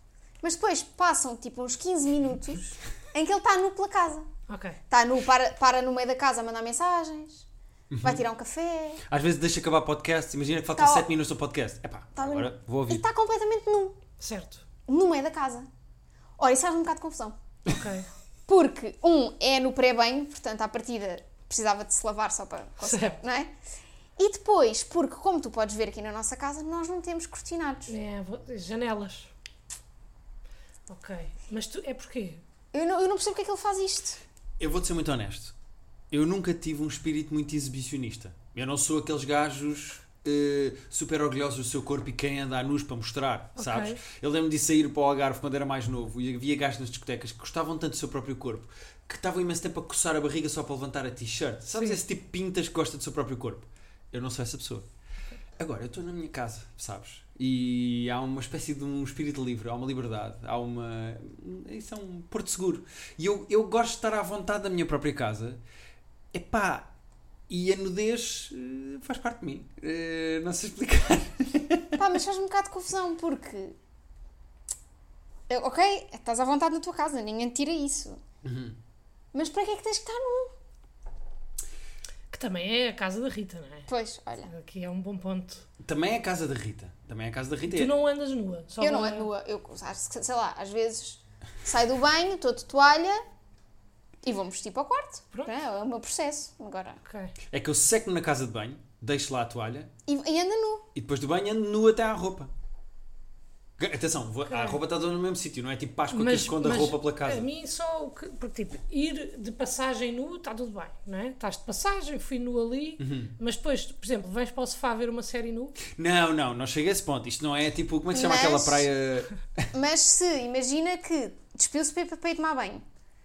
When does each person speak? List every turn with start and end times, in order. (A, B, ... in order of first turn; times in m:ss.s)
0:00.4-0:04.3 A
0:04.5-0:04.8 B
0:04.9-0:07.4 A
0:07.9-0:08.2 C
0:08.0-0:09.0 A
0:09.1-0:13.0 C
0:10.8-0:11.1 A
0:12.2-0:14.0 A
0:14.2-0:14.6 B
0:14.9-0:15.7 A
0:16.4-0:17.4 A
0:17.7-0:18.0 B
0:18.5-0:23.5 A
0:22.8-0:23.2 B
0:24.2-0:27.9 A
0:27.9-0:29.3 B
0:30.9-0:32.4 B
0:32.7-0:34.2 A
0:34.6-0:35.5 C
0:36.1-0:54.8 C
0:43.6-0:44.0 B
0:55.6-1:05.6 C
1:06.3-1:06.9 C
1:07.5-1:12.0 C
1:12.0-1:13.7 A
1:15.5-1:18.2 A
1:18.4-1:18.8 C
1:19.3-1:20.5 A
1:22.3-1:23.9 B
1:23.9-1:24.5 A
1:24.5-1:25.6 B
1:25.8-1:27.9 C
1:27.7-1:29.3 B
1:28.8-1:33.2 A
1:34.2-1:37.0 A
1:37.0-1:37.3 B
1:37.5-1:39.9 C
1:40.0-1:40.8 A
1:40.9-1:42.5 C
1:43.8-1:47.4 C
1:44.5-1:44.8 B
1:46.1-1:55.8 B
1:53.0-1:53.3 C
1:55.9-1:59.7 C
1:58.1-1:58.9 A
1:59.7-2:02.8 A